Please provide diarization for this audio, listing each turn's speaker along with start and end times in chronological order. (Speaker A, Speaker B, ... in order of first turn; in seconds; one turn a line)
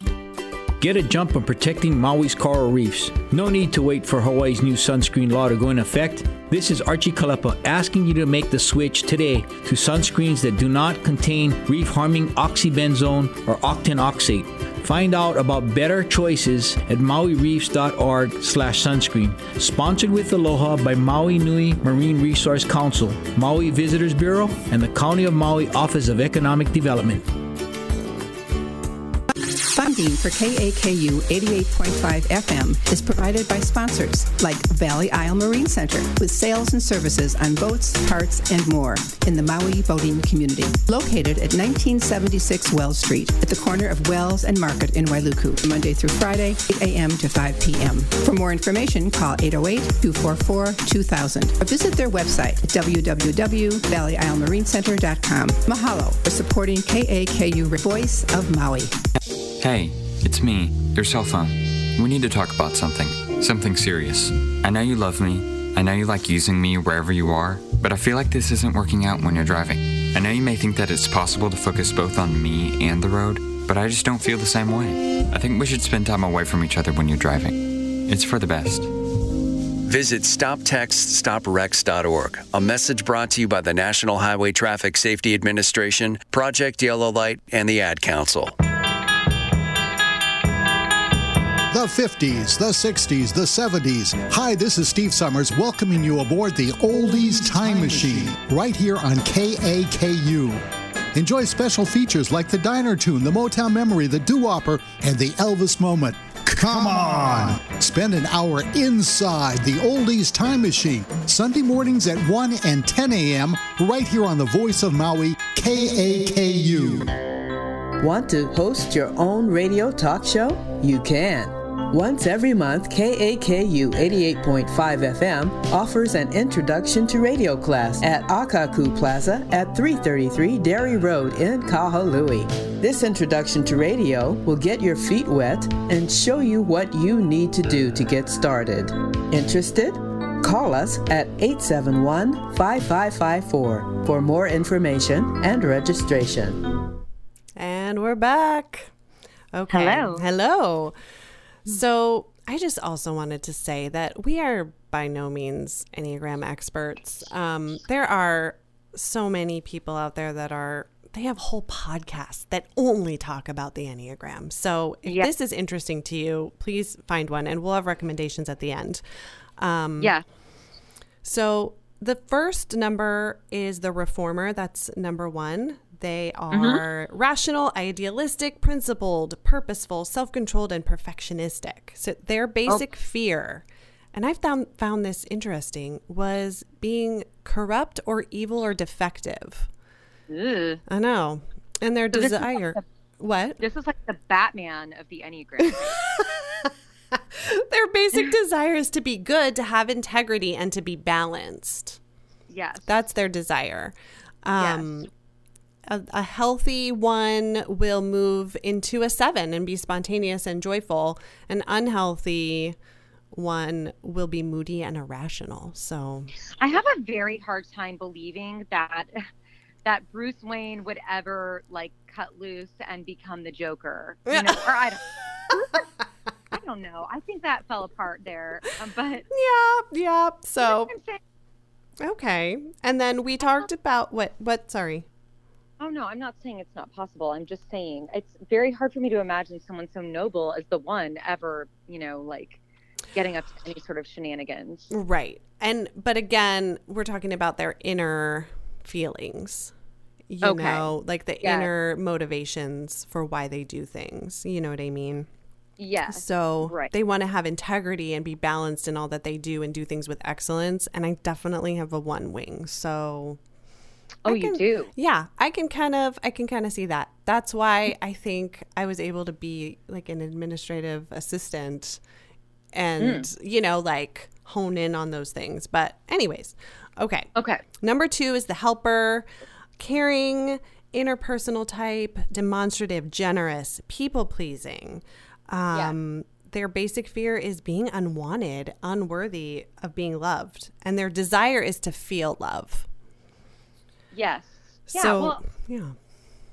Speaker A: 0.8-27.3
Speaker B: 29.6-59.0
Speaker C: 59.6-78.9
Speaker D: 79.9-88.6
Speaker E: 91.7-117.2
Speaker F: 118.0-146.7
Speaker G: 147.6-148.9
Speaker G: 149.5-150.9
Speaker H: 149.7-150.2
Speaker G: 151.7-169.0
Speaker H: 165.1-165.3
Speaker G: 169.6-170.2
Speaker G: 171.2-189.7
Speaker H: 176.5-176.8
Speaker H: 190.3-190.8
Speaker G: 190.9-193.6
Speaker H: 192.1-192.8
Speaker H: 193.6-196.0
Speaker G: 195.7-202.0
Speaker H: 202.5-202.9
Speaker G: 202.9-205.1
Speaker H: 204.6-204.9
Speaker G: 205.9-212.8
Speaker G: 213.3-216.3
Speaker H: 216.5-219.3
Speaker H: 219.8-225.9
Speaker G: 224.3-224.9
Speaker H: 226.5-229.2
Speaker G: 229.3-230.9
Speaker H: 230.6-231.2
Speaker G: 232.0-235.1
Speaker H: 233.4-233.7
Speaker H: 235.8-242.6
Speaker H: 243.1-244.9
Speaker G: 244.9-249.7
Speaker G: 250.3-255.3
Speaker H: 250.4-251.7
Speaker H: 255.8-256.9
Speaker G: 256.1-263.4
Speaker H: 264.2-264.9
Speaker G: 264.3-272.0
Speaker G: 272.7-279.3
Speaker H: 273.0-273.3
Speaker H: 277.4-277.6
Speaker G: 279.8-292.9
Speaker H: 294.1-295.4
Speaker G: 294.9-296.0